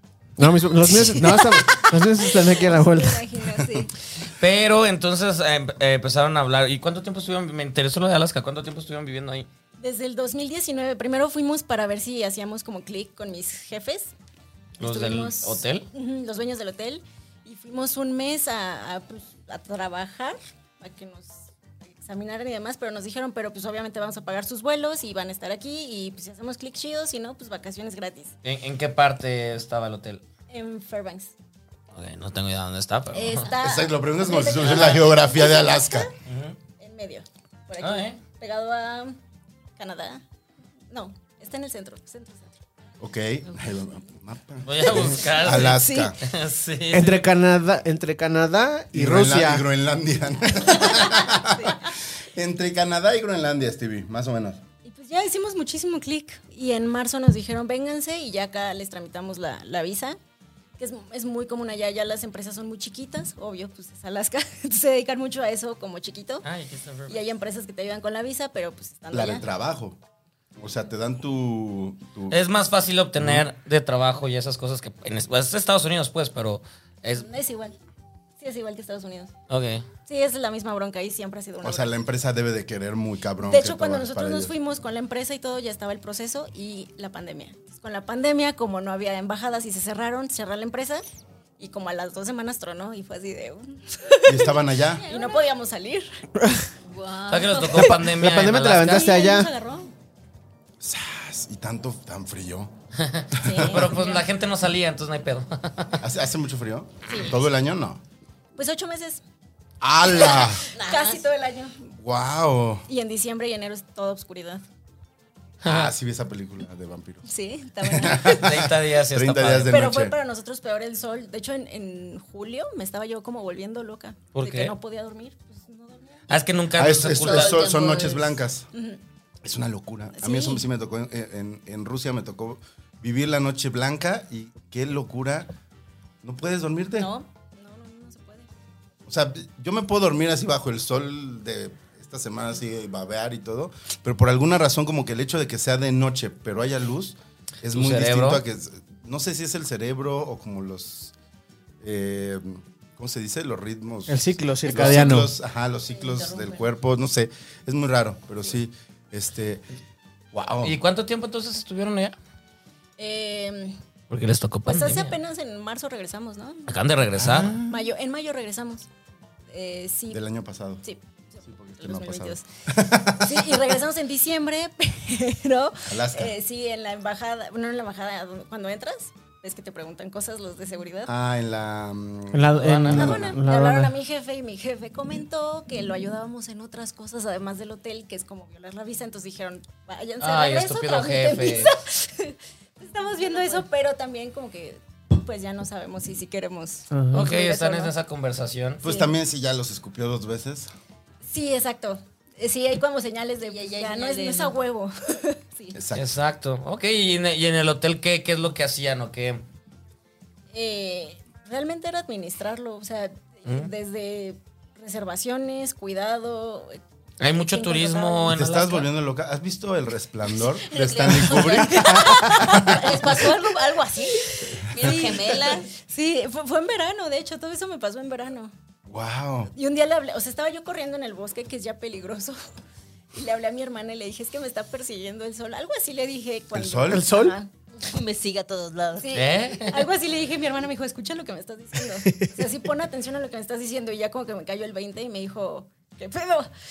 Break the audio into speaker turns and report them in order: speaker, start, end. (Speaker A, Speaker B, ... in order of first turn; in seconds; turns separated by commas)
Speaker A: 0.4-3.2, Speaker B: 1.1-3.9, Speaker C: 4.4-9.5, Speaker B: 9.8-14.1, Speaker C: 14.8-15.9, Speaker B: 14.8-28.3, Speaker C: 28.4-30.2, Speaker B: 30.5-31.3, Speaker C: 31.9-33.5, Speaker B: 33.1-36.1, Speaker D: 33.6-36.1, Speaker C: 34.6-35.0, Speaker C: 36.2-36.6, Speaker B: 36.8-39.2, Speaker C: 37.8-38.2, Speaker B: 39.8-40.2, Speaker B: 40.9-42.5, Speaker D: 43.0-46.2, Speaker C: 44.6-47.2, Speaker B: 45.5-46.1, Speaker A: 46.9-49.6, Speaker D: 48.9-54.6, Speaker B: 50.7-51.9, Speaker B: 54.8-60.2, Speaker B: 60.8-66.5, Speaker C: 66.4-67.2, Speaker B: 67.1-69.4, Speaker D: 69.1-70.0, Speaker D: 70.6-72.4, Speaker C: 72.3-77.3, Speaker D: 73.2-73.5, Speaker B: 77.2-77.8, Speaker B: 78.4-79.3, Speaker C: 79.5-79.8, Speaker B: 80.1-81.9, Speaker D: 81.6-84.5, Speaker B: 83.4-91.0, Speaker B: 91.6-96.1, Speaker D: 94.2-95.1, Speaker E: 95.1-95.4, Speaker A: 96.4-96.6, Speaker E: 96.8-97.8, Speaker C: 97.3-99.1, Speaker B: 97.6-98.0, Speaker A: 97.8-99.5, Speaker B: 98.8-99.9, Speaker D: 100.8-102.7, Speaker C: 103.0-106.0, Speaker D: 103.3-103.9, Speaker B: 103.4-104.2, Speaker D: 106.0-108.0, Speaker B: 108.5-109.2, Speaker D: 109.8-110.6, Speaker B: 110.0-111.8, Speaker E: 110.7-111.2, Speaker D: 112.0-112.8, Speaker B: 112.9-114.6, Speaker C: 115.6-115.9, Speaker D: 115.6-117.2, Speaker B: 117.2-118.6, Speaker D: 117.8-120.2, Speaker C: 118.2-119.8, Speaker B: 119.7-126.2, Speaker C: 124.3-124.7, Speaker C: 126.3-127.7, Speaker D: 126.7-128.7, Speaker E: 127.1-128.4, Speaker B: 128.7-129.0, Speaker D: 129.4-135.5, Speaker B: 130.2-130.6, Speaker D: 136.2-137.1, Speaker B: 137.0-138.5, Speaker D: 139.1-151.1, Speaker C: 147.7-148.4, Speaker D: 151.8-159.6, Speaker A: 154.1-155.3, Speaker E: 155.9-156.7, Speaker D: 160.3-160.8, Speaker C: 160.6-162.1, Speaker B: 163.0-163.8, Speaker C: 164.1-165.2, Speaker B: 164.7-166.7, Speaker C: 166.7-167.6, Speaker D: 167.2-167.8, Speaker B: 167.6-168.9, Speaker B: 169.5-170.2, Speaker D: 170.1-170.8, Speaker B: 170.8-172.4, Speaker D: 171.4-173.6, Speaker B: 173.2-181.1, Speaker D: 175.9-176.3, Speaker D: 181.1-183.4, Speaker A: 182.3-183.9, Speaker C: 182.5-183.2, Speaker B: 182.9-197.9, Speaker C: 190.2-191.7, Speaker E: 193.0-193.7, Speaker A: 196.9-197.3, Speaker C: 197.1-198.8, Speaker D: 198.8-200.7, Speaker B: 198.8-199.1, Speaker B: 201.3-205.8, Speaker E: 203.4-204.6, Speaker D: 205.7-206.1, Speaker C: 205.9-209.4, Speaker B: 210.5-216.8, Speaker C: 213.4-213.7, Speaker C: 217.2-218.9, Speaker B: 217.3-218.3, Speaker D: 218.3-223.0, Speaker E: 220.6-225.7, Speaker B: 221.4-223.3, Speaker B: 224.4-228.5, Speaker D: 228.9-229.5, Speaker B: 229.5-232.4, Speaker B: 233.1-237.5, Speaker D: 236.5-237.1, Speaker A: 236.9-237.4, Speaker E: 237.8-239.2, Speaker B: 239.0-246.5, Speaker C: 239.1-239.9